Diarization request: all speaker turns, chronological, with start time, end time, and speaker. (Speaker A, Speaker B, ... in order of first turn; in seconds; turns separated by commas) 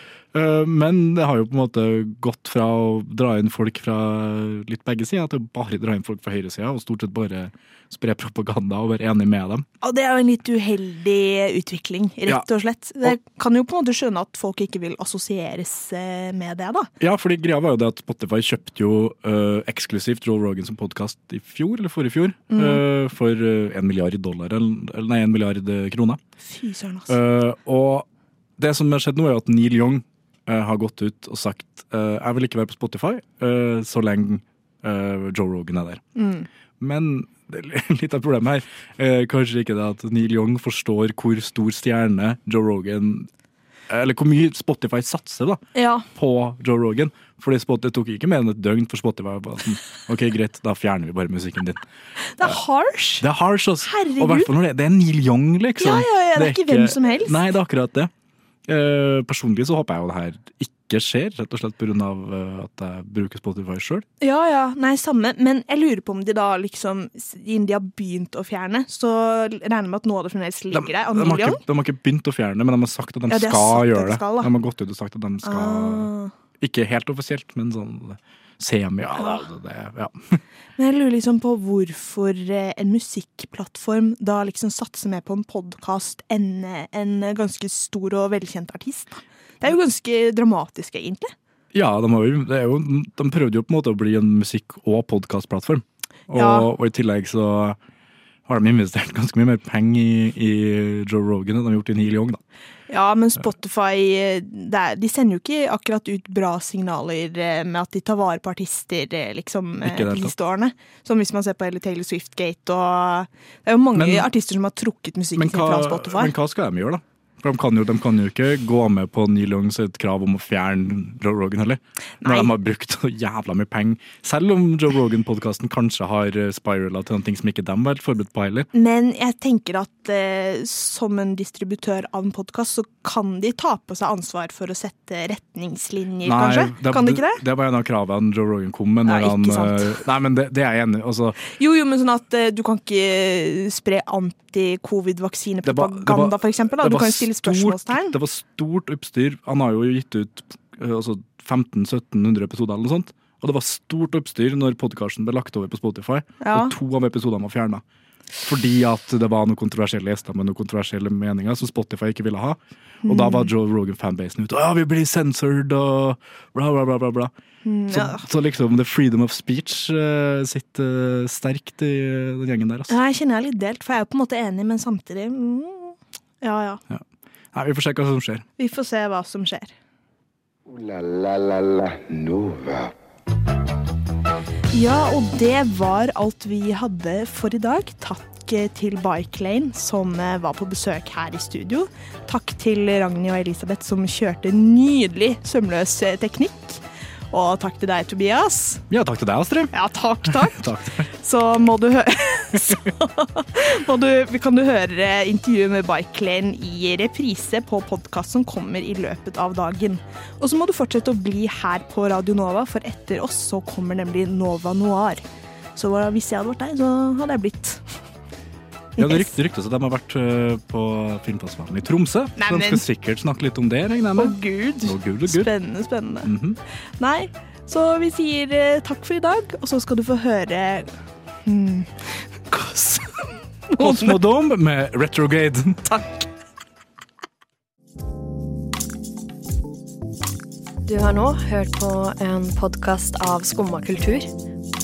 Speaker A: 0.3-9.6, Speaker B: 9.8-16.9, Speaker A: 17.0-26.2, Speaker B: 22.5-22.8, Speaker B: 26.4-27.1, Speaker A: 27.1-28.1, Speaker A: 28.6-36.0, Speaker B: 36.1-36.5, Speaker A: 36.8-43.3, Speaker A: 43.9-45.6, Speaker B: 45.7-46.0, Speaker A: 46.1-51.8, Speaker B: 52.3-53.2, Speaker A: 53.2-58.1, Speaker B: 53.8-54.5, Speaker B: 55.8-57.5, Speaker A: 58.7-64.0, Speaker B: 64.2-71.6, Speaker A: 70.7-80.4, Speaker B: 73.3-74.5, Speaker B: 75.4-76.3, Speaker B: 80.8-91.3, Speaker A: 91.7-97.8, Speaker B: 96.3-96.7, Speaker A: 98.5-102.4, Speaker B: 102.9-116.3, Speaker A: 109.8-110.3, Speaker A: 113.9-114.3, Speaker A: 115.3-128.7, Speaker B: 122.2-122.5, Speaker B: 128.7-137.4, Speaker A: 136.2-141.4, Speaker B: 139.0-140.0, Speaker B: 141.5-148.2, Speaker A: 145.6-157.8, Speaker B: 156.4-156.7, Speaker A: 158.4-167.3, Speaker B: 163.0-163.5, Speaker B: 167.6-168.2, Speaker A: 167.9-173.0, Speaker B: 172.9-176.8, Speaker A: 176.9-178.4, Speaker B: 178.6-179.7, Speaker C: 180.7-182.9, Speaker B: 184.7-198.8, Speaker A: 198.9-201.1, Speaker B: 199.7-215.2, Speaker B: 215.7-217.8, Speaker B: 219.0-219.3, Speaker A: 219.0-225.5, Speaker B: 222.4-222.8, Speaker B: 224.2-226.3, Speaker A: 226.2-226.6, Speaker B: 227.0-230.9, Speaker B: 231.4-234.2, Speaker A: 233.8-236.1, Speaker D: 240.9-244.3